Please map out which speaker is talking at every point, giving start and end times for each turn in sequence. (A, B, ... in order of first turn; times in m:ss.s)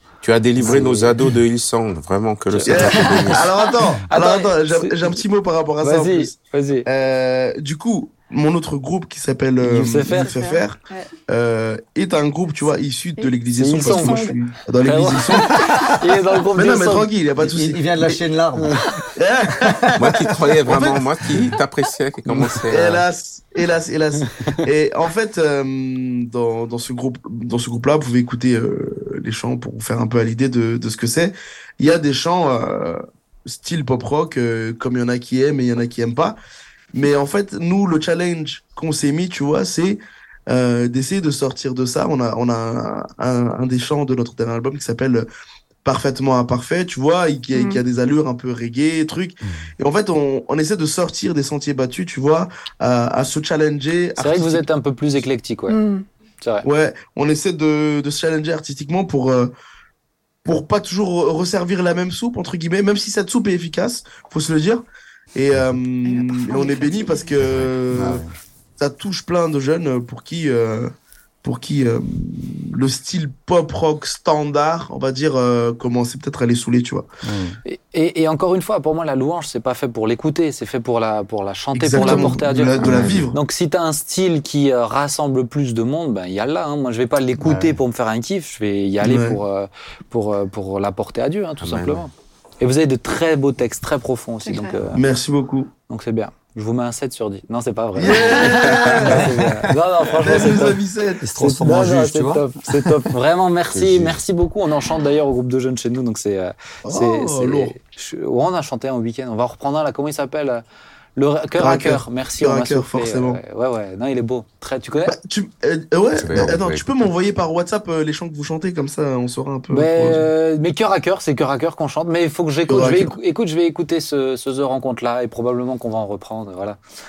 0:00.2-0:03.5 A
0:00.6-0:01.1 B
0:02.5-0:03.4 B
0:02.7-0:06.3 C
0:04.1-0:05.1 B
0:05.8-0:06.9 B
0:06.9-0:17.8 C
0:09.6-0:10.3 B
0:10.2-0:11.1 D
0:13.2-0:14.4 D
0:13.6-0:14.3 B
0:14.8-0:17.1 B
0:17.4-0:18.9 E
0:19.1-0:21.1 C
0:20.0-0:23.0 A
0:22.4-0:36.4 C
0:36.9-0:45.3 C
0:45.8-0:54.6 C
0:47.5-0:47.8 D
0:54.2-0:55.8 B
0:55.7-0:56.1 D
0:56.6-0:59.5 C
1:00.4-1:08.2 C
1:06.0-1:07.4 D
1:07.9-1:08.3 E
1:08.8-1:17.1 C
1:17.2-1:17.6 E
1:17.6-1:35.0 B
1:21.8-1:23.4 C
1:22.0-1:22.3 E
1:22.8-1:23.3 A
1:27.4-1:27.8 E
1:29.0-1:29.4 C
1:31.6-1:32.0 A
1:34.4-1:34.8 D
1:34.9-1:35.7 C
1:35.9-1:40.8 B
1:38.0-1:39.3 C
1:38.7-1:39.0 A
1:39.3-1:39.7 E
1:40.2-1:41.2 C
1:41.2-1:42.9 E
1:41.4-1:50.6 B
1:43.7-1:44.2 A
1:46.8-1:47.8 C
1:51.2-1:55.2 B
1:51.6-1:53.4 C
1:55.1-2:00.3 C
1:56.2-1:56.9 A
1:59.7-2:06.8 B
2:02.7-2:03.2 C